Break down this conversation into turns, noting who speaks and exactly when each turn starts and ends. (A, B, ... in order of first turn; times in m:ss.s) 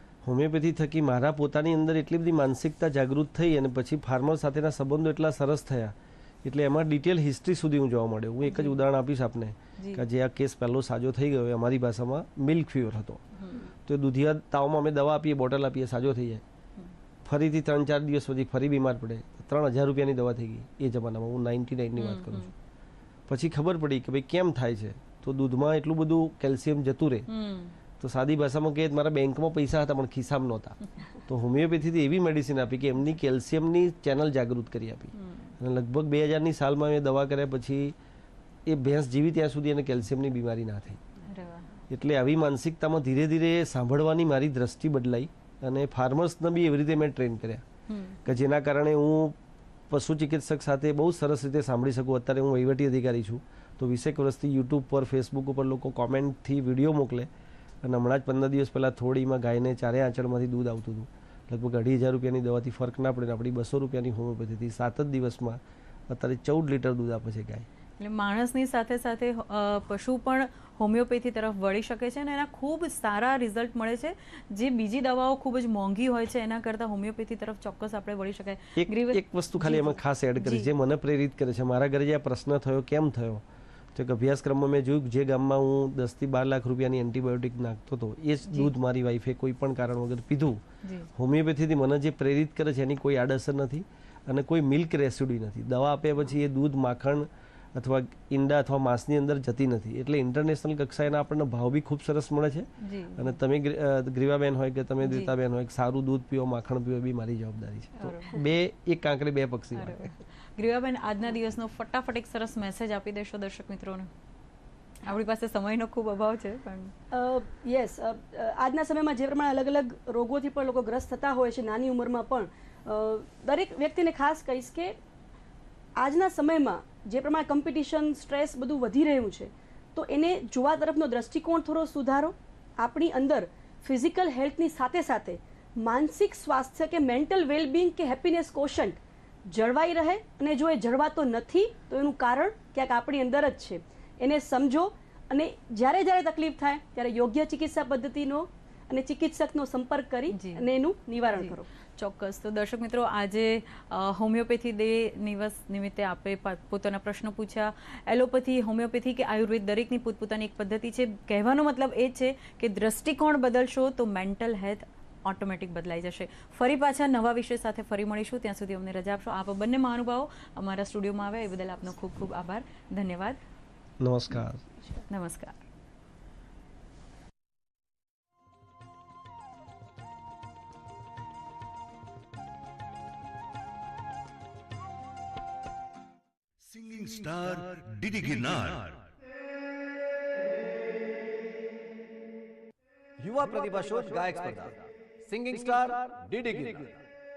0:00.2-0:13.2 A
0:08.5-0:08.8 B
0:09.8-0:10.0 B
0:13.4-0:13.6 B
0:13.8-0:16.4 A
0:17.2-0:22.4 A
0:22.0-0:22.5 B
0:23.3-0:27.3 A
0:27.3-0:27.7 B
0:28.0-0:38.0 A
0:35.2-0:35.5 B
0:38.6-0:41.0 A
0:41.3-0:41.8 B
0:41.9-0:47.6 A
0:47.9-0:48.2 B
0:48.2-0:49.4 A
0:49.9-0:57.3 A
0:57.8-1:07.6 A
1:08.0-1:20.7 B
1:18.8-1:23.4 A
1:23.9-1:30.6 A
1:30.8-1:31.1 B
1:31.2-1:50.1 A
1:42.8-1:43.4 B
1:45.0-1:45.3 B
1:48.0-1:48.4 B
1:49.8-1:54.1 B
1:55.0-1:56.9 B
1:57.1-2:05.0 C
2:06.0-2:31.7 C
2:30.3-2:30.6 B
2:31.4-2:53.4 B
2:54.0-2:54.6 A
2:55.1-2:55.6 B
3:06.8-3:08.9 D
3:13.2-3:17.0 E